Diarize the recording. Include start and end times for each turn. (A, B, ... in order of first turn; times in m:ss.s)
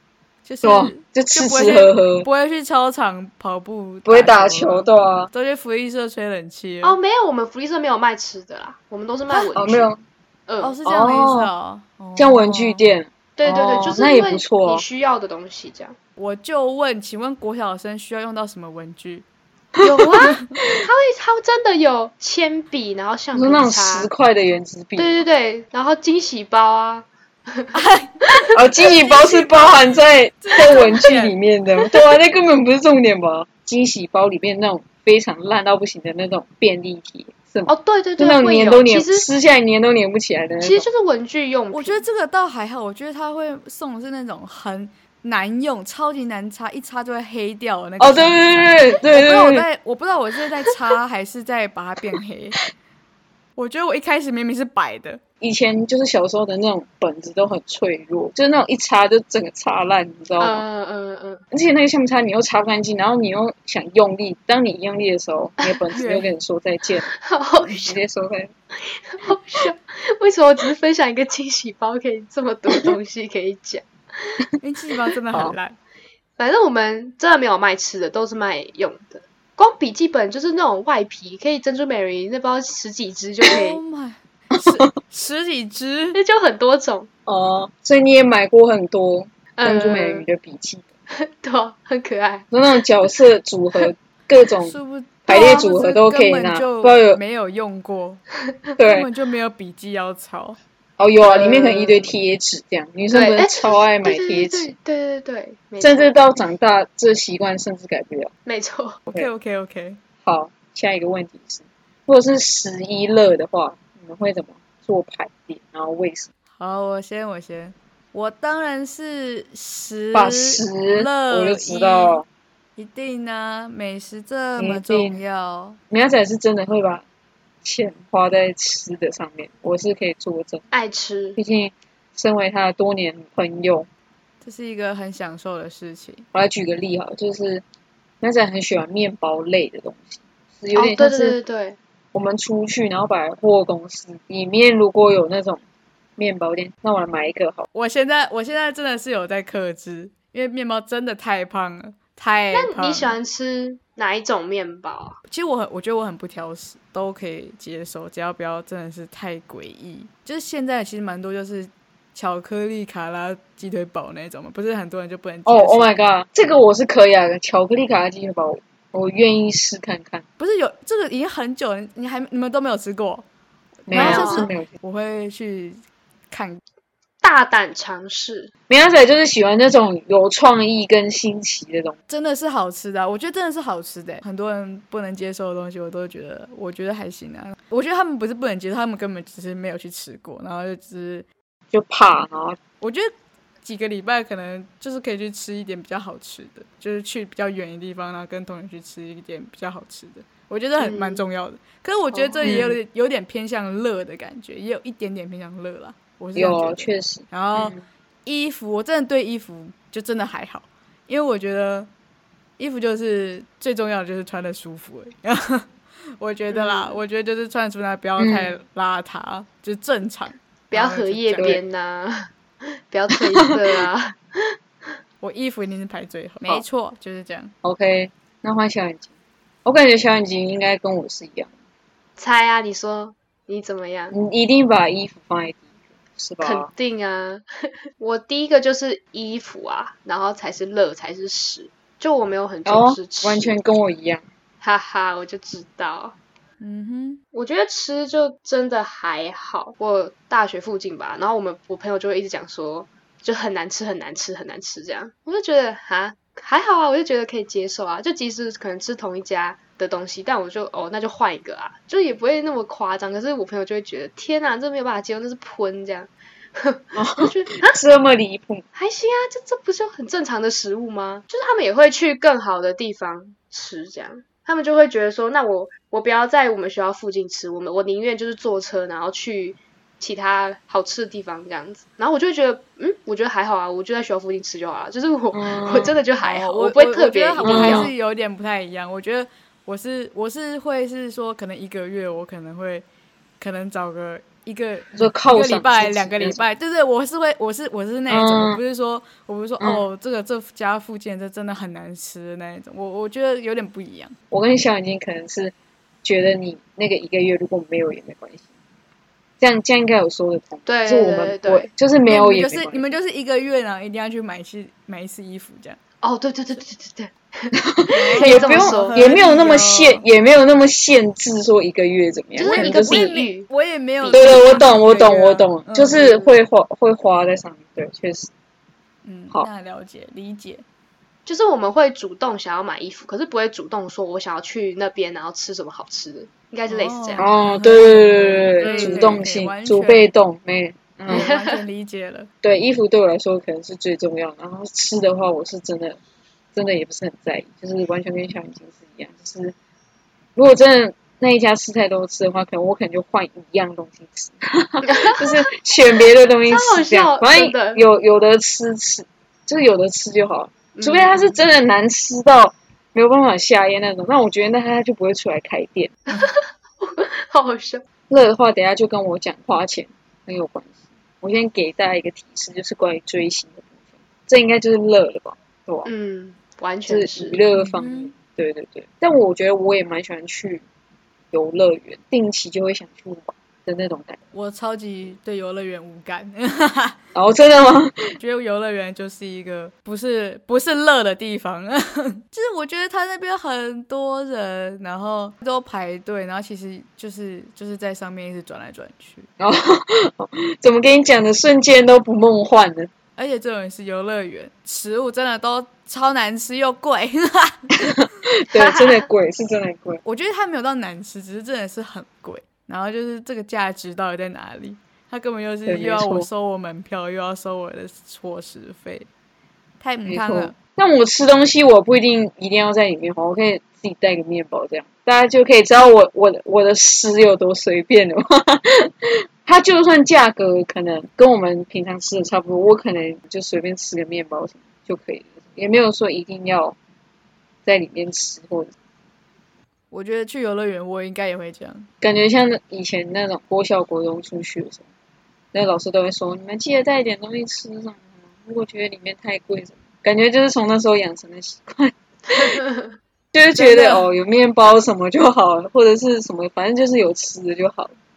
0:00.4-0:07.0 A
0:00.6-0:02.2 B
0:04.0-0:05.3 B
0:06.8-0:09.9 C
0:09.5-0:10.0 B
0:10.5-0:10.8 C
0:10.6-0:12.8 A
0:10.8-0:11.5 B
0:12.2-0:14.8 B
0:13.4-0:16.0 C
0:16.2-0:19.2 A
0:19.8-0:20.1 B
0:19.8-0:24.1 C
0:20.2-0:20.5 A
0:23.3-0:25.2 B
0:25.0-0:27.7 C
0:27.7-0:31.3 A
0:28.5-0:40.8 B
0:37.7-0:39.3 C
0:40.6-0:42.0 C
0:41.7-0:52.6 A
0:48.0-0:49.6 B
0:53.6-0:55.2 A
0:55.4-1:00.6 B
1:00.4-1:01.4 C
1:01.5-1:07.1 B
1:05.9-1:06.3 A
1:07.1-1:08.0 C
1:07.6-1:08.5 B
1:08.8-1:14.4 C
1:14.6-1:15.8 A
1:15.3-1:15.6 B
1:16.4-1:23.8 C
1:23.5-1:26.2 A
1:26.1-1:27.1 C
1:27.2-1:30.9 B
1:29.6-1:30.2 C
1:31.1-1:32.4 C
1:32.5-1:34.7 B
1:34.6-1:38.2 A
1:35.3-1:37.2 B
1:38.8-1:39.1 B
1:38.8-1:40.6 A
1:41.0-1:44.7 B
1:41.2-1:42.1 C
1:43.1-1:46.1 C
1:45.8-1:48.3 B
1:48.4-1:49.0 C
1:49.1-1:50.0 A
1:50.2-1:56.3 B
1:56.6-2:02.2 A
2:00.1-2:02.2 B
2:02.8-2:05.8 A
2:04.6-2:05.2 B
2:05.9-2:07.0 B
2:07.6-2:10.6 B
2:10.7-2:11.4 C
2:11.4-2:13.9 B
2:14.4-2:16.2 A
2:16.3-2:17.6 B
2:18.2-2:21.4 B
2:20.7-2:21.8 C
2:22.1-2:25.6 B
2:26.2-2:27.6 B
2:27.7-2:33.2 A
2:32.5-2:35.2 C
2:35.3-2:45.9 A
2:45.4-2:50.2 B
2:50.4-2:53.2 A
2:53.8-2:56.6 A
2:53.9-2:54.7 B
2:53.9-2:54.5 C
2:57.2-2:58.5 C
2:58.7-3:02.0 B
3:02.1-3:11.2 A
3:11.7-3:12.6 B
3:12.8-3:13.1 A
3:13.6-3:31.9 A
3:20.8-3:21.2 C
3:22.1-3:22.6 C
3:22.4-3:22.8 B
3:26.4-3:27.8 B
3:32.6-3:41.6 A
3:36.5-3:37.0 C
3:38.2-3:38.6 B
3:40.7-3:44.6 C
3:43.1-3:43.5 B
3:45.2-3:47.5 A
3:47.6-3:49.1 B
3:49.6-3:51.5 B
3:52.2-3:54.1 C
3:54.1-3:55.6 B
3:56.2-3:56.7 B
3:56.4-4:03.6 C
4:02.6-4:04.2 B
4:04.6-4:06.1 C
4:06.6-4:07.2 A
4:07.3-4:27.8 C
4:26.9-4:28.6 B
4:28.7-4:47.9 C
4:45.3-4:46.0 B
4:46.2-4:52.8 A
4:47.4-4:47.9 B
4:53.4-5:04.1 A
4:54.9-4:56.4 B
4:58.1-4:58.6 B
5:04.3-5:05.5 B
5:06.0-5:08.4 B
5:09.4-5:12.8 B
5:10.6-5:11.7 C
5:12.1-5:15.8 A
5:16.0-5:19.1 C
5:17.5-5:23.1 B
5:17.9-5:20.0 A
5:22.4-5:23.5 C
5:22.5-5:26.0 A
5:24.0-5:24.7 C
5:24.1-5:28.3 B
5:25.9-5:26.3 C
5:29.0-5:30.6 A
5:31.2-5:37.3 C
5:36.7-5:40.1 A
5:37.2-5:41.3 B
5:38.6-5:39.1 C
5:41.1-5:42.3 A
5:41.1-5:41.6 C
5:42.4-5:46.0 B
5:46.5-5:49.5 B
5:50.4-6:05.9 B
5:54.8-5:55.5 C
5:56.4-5:57.8 C
6:00.7-6:01.4 C
6:06.1-6:07.8 C
6:08.1-6:13.7 B
6:14.3-6:15.9 B
6:15.8-6:17.4 C
6:16.9-6:20.6 B
6:17.5-6:18.1 A
6:21.3-6:24.2 B
6:24.3-6:27.0 A
6:27.1-6:28.2 B
6:28.2-6:39.3 A
6:39.4-6:42.9 B
6:43.2-6:47.8 A
6:47.8-6:50.0 B
6:48.5-6:49.0 C
6:50.0-6:59.1 A
6:55.6-6:56.3 B
6:59.8-7:00.5 A
7:00.0-7:16.8 B
7:17.6-7:18.7 B
7:19.9-7:21.9 A
7:22.0-7:24.8 B
7:25.5-7:32.6 B
7:32.4-7:32.9 C
7:33.3-7:37.9 B
7:33.6-7:34.0 A